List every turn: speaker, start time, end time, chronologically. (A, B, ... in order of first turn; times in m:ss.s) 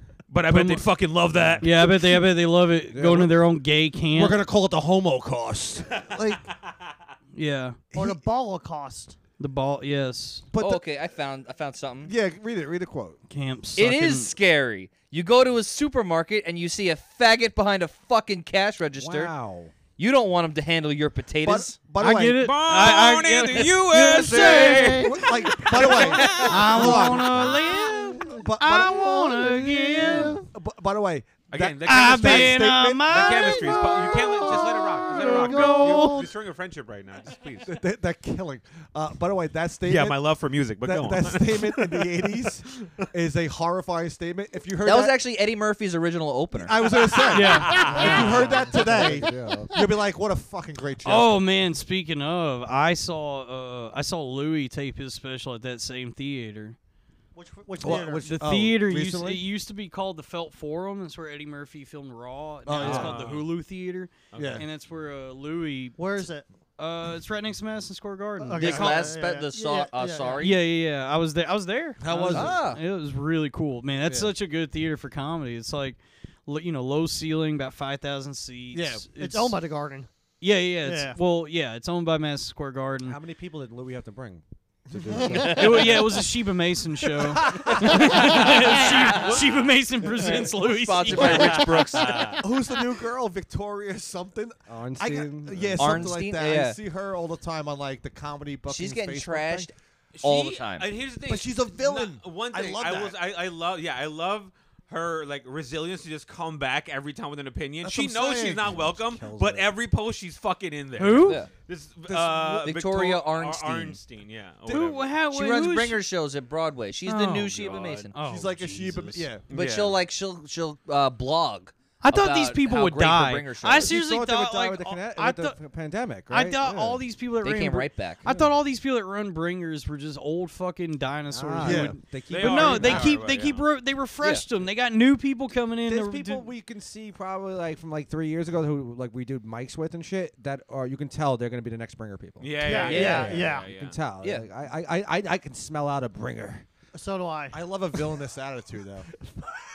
0:00.3-0:01.7 A
0:00.5-0:00.9 B
0:01.4-0:01.6 C
0:01.6-0:04.4 B
0:02.9-0:03.4 C
0:04.2-0:06.5 D
0:05.9-0:06.9 A
0:07.4-0:07.8 B
0:07.9-0:09.2 E
0:07.9-0:08.2 D
0:09.4-0:10.5 B
0:10.5-0:10.9 D
0:10.6-0:12.1 F
0:12.1-0:13.2 D
0:13.3-0:14.4 B
0:13.8-0:19.3 F
0:19.0-0:19.7 C
0:20.0-0:21.8 F
0:21.4-0:22.5 D
0:22.0-0:30.4 B
0:22.4-0:27.0 A
0:24.1-0:33.8 D
0:24.3-0:25.0 F
0:25.8-0:27.0 F
0:31.5-0:37.8 A
0:31.8-0:36.3 B
0:34.4-0:36.2 E
0:35.1-0:35.5 D
0:37.6-0:40.2 D
0:39.8-0:43.1 A
0:40.8-0:45.2 D
0:44.8-0:47.0 F
0:46.5-0:51.4 D
0:46.9-0:48.4 A
0:47.3-0:48.6 B
0:47.8-0:49.7 C
0:51.0-0:56.8 B
0:57.4-0:58.4 E
0:57.8-0:59.4 D
0:58.2-1:06.0 B
1:02.7-1:03.2 D
1:02.8-1:03.1 C
1:02.8-1:03.5 A
1:04.3-1:04.6 A
1:04.4-1:04.6 D
1:06.0-1:06.5 E
1:06.8-1:09.1 B
1:08.5-1:10.5 E
1:08.6-1:10.6 F
1:10.4-1:19.6 B
1:12.0-1:12.7 D
1:12.3-1:12.8 F
1:18.7-1:19.1 D
1:19.2-1:20.1 E
1:20.4-1:23.2 B
1:20.8-1:21.2 E
1:23.0-1:26.0 C
1:24.9-1:25.2 D
1:25.2-1:25.6 E
1:25.4-1:25.8 F
1:25.4-1:32.3 B
1:27.3-1:29.4 D
1:27.5-1:28.2 C
1:28.4-1:29.4 F
1:30.2-1:32.4 F
1:31.2-1:32.4 A
1:31.2-1:31.5 D
1:32.4-1:39.7 D
1:34.7-1:36.3 C
1:35.8-1:36.8 F
1:38.7-1:40.9 F
1:40.1-1:55.1 A
1:41.3-1:43.2 D
1:47.8-1:48.8 D
1:48.6-1:49.7 C
1:51.0-1:51.4 B
1:51.2-1:51.5 F
1:52.1-1:52.4 D
1:52.3-1:54.0 F
1:54.7-1:56.0 B
1:55.2-1:58.2 F
1:57.0-1:59.3 B
1:58.2-1:59.5 D
1:59.5-2:00.0 A
1:59.5-2:04.0 F
2:02.0-2:05.6 B
2:03.8-2:07.0 C
2:06.3-2:16.5 B
2:07.4-2:08.2 F
2:08.3-2:08.6 C
2:11.3-2:13.2 C
2:11.6-2:12.0 D
2:12.3-2:13.7 A
2:15.8-2:26.6 C
2:22.4-2:24.0 A
2:22.6-2:23.7 E
2:22.8-2:23.4 F
2:24.2-2:24.5 F
2:26.9-2:27.6 E
2:27.5-2:29.1 D